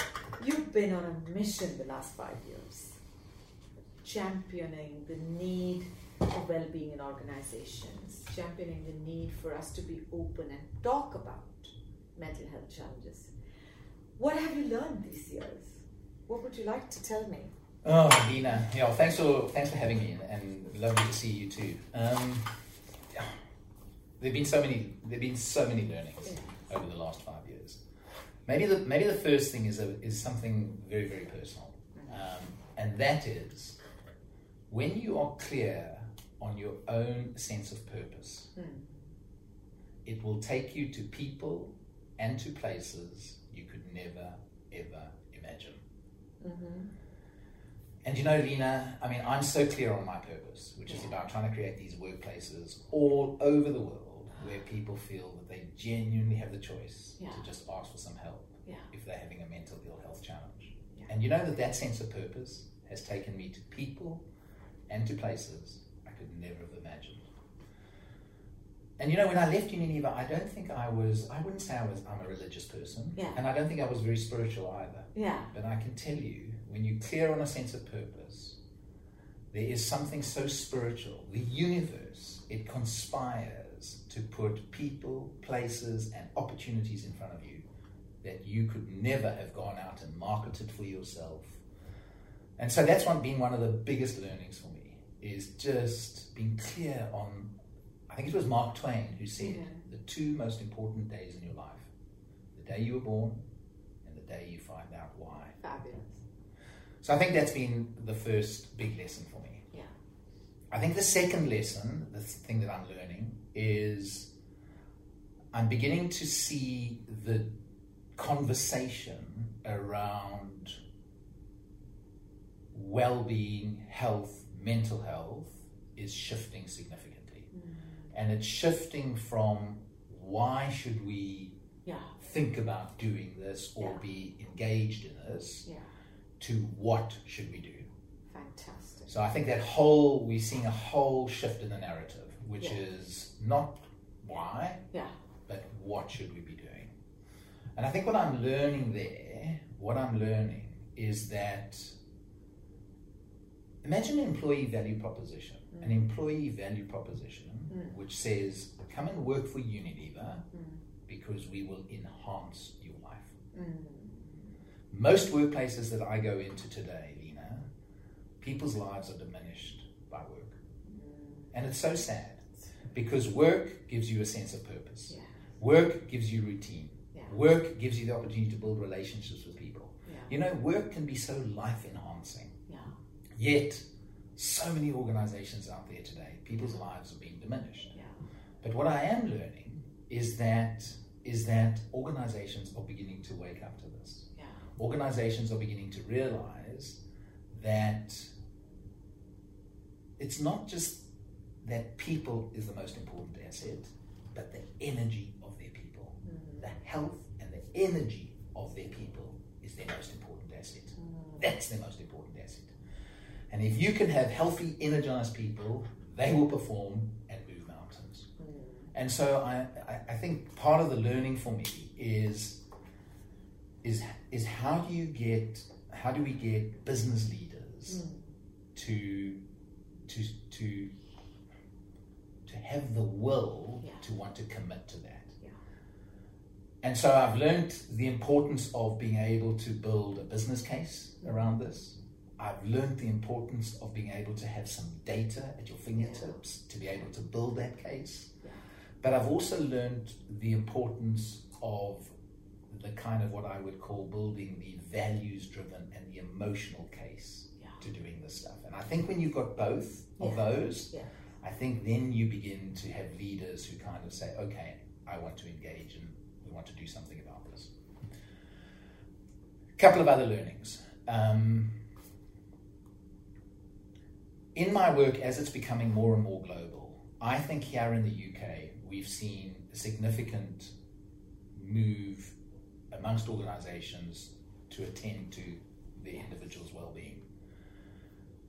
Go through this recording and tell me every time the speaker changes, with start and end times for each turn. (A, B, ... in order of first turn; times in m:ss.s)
0:00.4-0:03.0 A
0:04.0-0:13.3 A
0:14.2-0:17.5 A
0:17.8-0:22.6 B
0:24.2-0:27.8 B
0:28.5-0:33.8 B
0:34.7-0:38.5 B
0:38.6-0:38.9 A
0:40.0-0:45.8 B
0:46.4-0:46.9 A
0:48.0-1:04.2 B
1:04.9-1:07.3 B
1:09.0-1:18.6 B
1:15.2-1:15.5 A
1:19.5-1:27.6 B
1:28.2-1:31.6 B
1:32.6-1:37.5 B
1:38.1-1:41.9 B
1:39.4-1:39.8 A
1:42.6-1:43.4 B
1:44.0-1:45.6 B
1:45.6-1:46.2 A
1:47.0-1:49.7 B
1:50.7-1:54.3 B
1:55.5-1:57.5 B
1:58.2-2:00.8 B
2:02.7-2:07.5 B
2:08.1-2:11.5 B
2:11.9-2:12.1 A
2:12.2-2:15.7 B
2:16.4-2:17.9 B
2:18.3-2:19.1 A
2:19.1-2:24.8 B
2:25.5-2:26.9 B
2:27.8-2:32.0 B
2:33.8-2:40.5 B
2:41.1-2:43.3 B
2:43.5-2:44.4 A
2:44.9-2:47.7 B
2:48.4-2:50.6 B
2:50.9-2:51.5 A
2:51.5-3:02.5 B
3:00.1-3:00.3 A
3:03.4-3:03.8 B
3:04.4-3:07.9 B
3:08.6-3:18.3 B
3:20.2-3:21.1 B
3:21.6-3:32.7 B
3:26.3-3:26.6 A
3:31.0-3:31.4 A
3:33.5-3:38.3 B
3:38.4-3:38.9 A
3:38.9-3:42.6 B
3:43.8-3:48.0 B
3:47.9-3:48.2 A
3:48.8-3:49.4 B
3:50.1-3:50.9 B
3:52.5-3:55.4 B
3:56.8-4:08.3 B
4:06.0-4:06.3 A
4:09.0-4:12.1 B
4:12.7-4:27.7 B
4:20.2-4:21.1 A
4:29.8-4:31.8 B
4:34.6-4:40.7 B
4:41.5-4:42.4 B
4:42.9-4:47.2 B